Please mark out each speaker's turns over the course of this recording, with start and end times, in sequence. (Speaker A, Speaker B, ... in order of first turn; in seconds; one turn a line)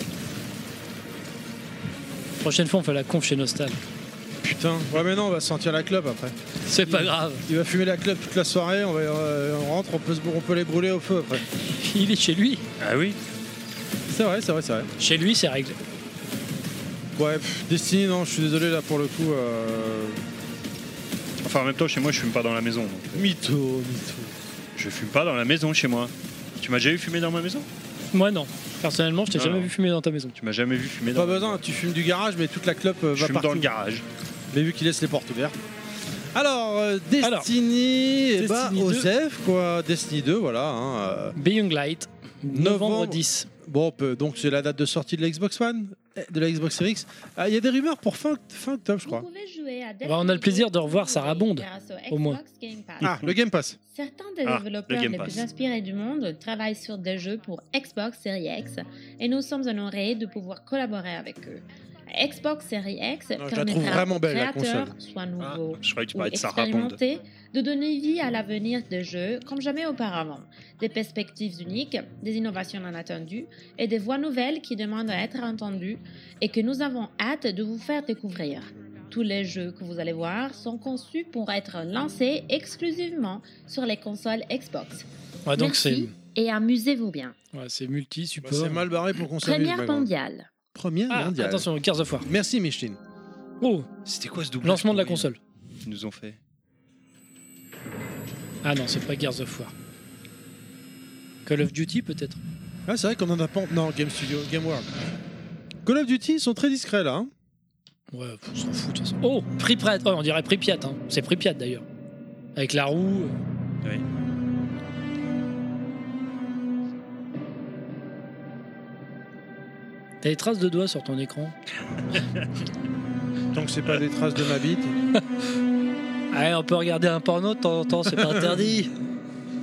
Speaker A: 2.4-3.8
Speaker B: 4.4-11.4
Speaker A: 6.7-7.4
Speaker A: 11.7-12.6
Speaker C: 12.8-13.2
Speaker B: 14.1-14.9
Speaker A: 15.0-15.8
Speaker B: 17.1-20.2
Speaker C: 21.4-23.3
Speaker B: 23.1-24.3
Speaker C: 24.8-27.7
Speaker A: 28.1-30.4
Speaker C: 29.3-29.7
Speaker C: 30.4-31.6
Speaker B: 31.1-33.7
Speaker C: 33.1-34.0
Speaker B: 34.5-35.6
Speaker B: 36.3-41.4
Speaker A: 37.2-37.5
Speaker A: 38.4-39.1
Speaker A: 41.4-43.5
Speaker B: 42.5-49.3
Speaker D: 49.0-53.2
Speaker A: 50.0-52.4
Speaker B: 53.0-53.8
Speaker D: 53.9-87.4
Speaker C: 54.4-55.5
Speaker B: 63.4-64.9
Speaker C: 65.4-67.0
Speaker A: 85.5-86.1
Speaker A: 87.5-88.8
Speaker B: 88.4-90.1
Speaker D: 89.4-90.5
Speaker B: 90.8-91.7
Speaker A: 91.1-92.3
Speaker B: 92.3-93.0
Speaker A: 93.6-93.9
Speaker C: 94.0-95.3
Speaker A: 94.6-95.4
Speaker C: 95.8-96.4
Speaker A: 98.6-99.7
Speaker A: 101.5-102.4
Speaker B: 102.9-104.9
Speaker B: 105.8-107.3
Speaker A: 108.1-111.8
Speaker A: 112.6-113.3
Speaker A: 120.2-121.5
Speaker C: 122.1-122.5
Speaker B: 123.5-124.9
Speaker A: 126.3-128.9
Speaker B: 128.1-128.6